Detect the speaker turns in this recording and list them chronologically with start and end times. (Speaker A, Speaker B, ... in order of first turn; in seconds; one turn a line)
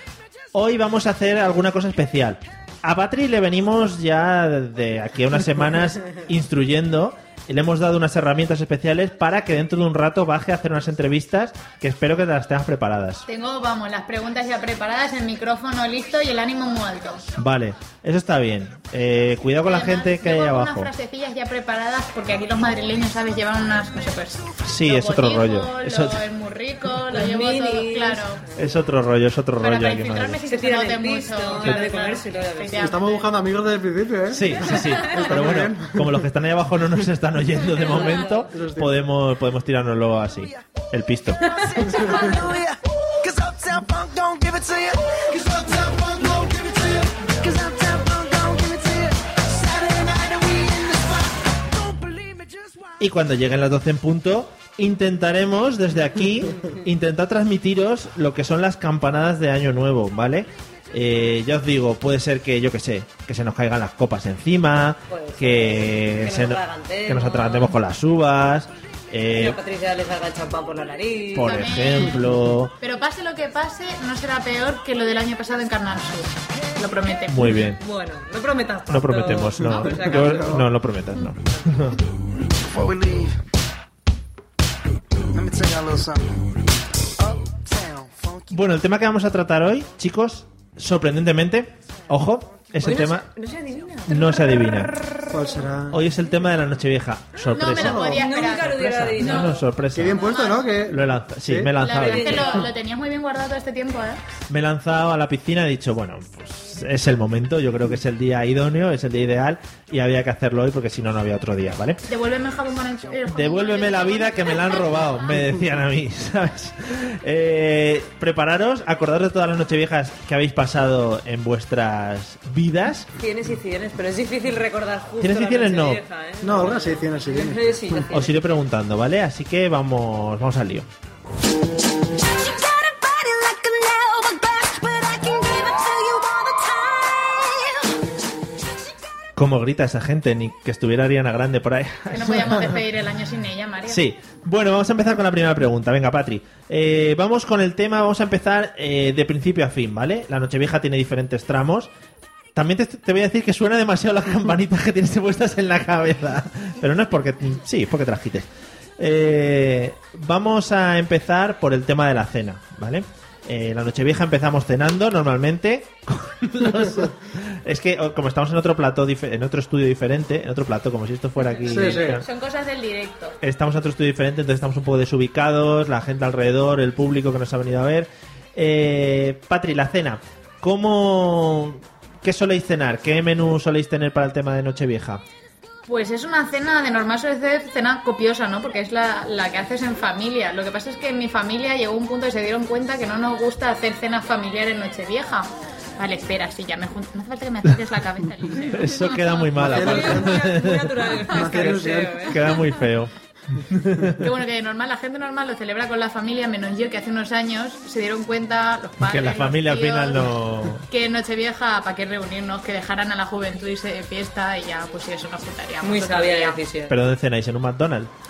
Speaker A: 0.5-13.2
Speaker B: 13.3-17.3
Speaker A: 17.4-20.9
Speaker B: 19.7-28.4
Speaker A: 24.6-26.2
Speaker C: 27.1-28.4
Speaker A: 28.6-30.4
Speaker B: 29.6-33.3
Speaker C: 30.5-32.9
Speaker A: 31.6-31.9
Speaker D: 32.8-36.3
Speaker A: 34.3-41.4
Speaker C: 37.8-38.5
Speaker D: 38.1-39.1
Speaker E: 41.5-52.9
Speaker D: 41.9-42.3
Speaker A: 53.0-69.6
Speaker C: 65.1-67.8
Speaker C: 69.3-71.9
Speaker A: 71.3-72.7
Speaker B: 71.4-72.2
Speaker B: 72.8-77.5
Speaker A: 77.3-77.8
Speaker C: 77.8-80.7
Speaker A: 78.9-82.0
Speaker E: 82.6-83.3
Speaker E: 85.3-86.3
Speaker E: 87.2-88.5
Speaker A: 88.5-93.3
Speaker C: 92.8-94.6
Speaker A: 94.1-95.0
Speaker D: 95.3-96.0
Speaker A: 95.9-102.6
Speaker B: 97.5-99.5
Speaker D: 97.6-98.2
Speaker C: 98.2-99.7
Speaker D: 99.9-101.8
Speaker B: 100.1-100.7
Speaker B: 101.8-104.2
Speaker C: 102.0-102.7
Speaker A: 104.5-112.0
Speaker B: 112.1-115.2
Speaker A: 113.3-123.1
Speaker C: 123.2-128.3
Speaker A: 125.2-126.0
Speaker D: 126.4-128.1
Speaker A: 128.1-130.9
Speaker E: 132.3-137.9
Speaker A: 139.4-142.7
Speaker B: 142.1-144.0
Speaker A: 143.9-151.9
Speaker A: 152.6-158.5
Speaker A: 159.0-172.2
Speaker D: 171.7-172.2
Speaker B: 171.7-173.4
Speaker A: 173.4-185.2
Speaker B: 185.9-198.8
Speaker C: 198.6-202.5
Speaker A: 198.7-204.2
Speaker D: 199.6-200.5
Speaker D: 201.3-202.3
Speaker B: 204.2-210.3
Speaker A: 209.0-210.8
Speaker B: 210.9-216.6
Speaker C: 215.8-217.0
Speaker A: 216.9-218.1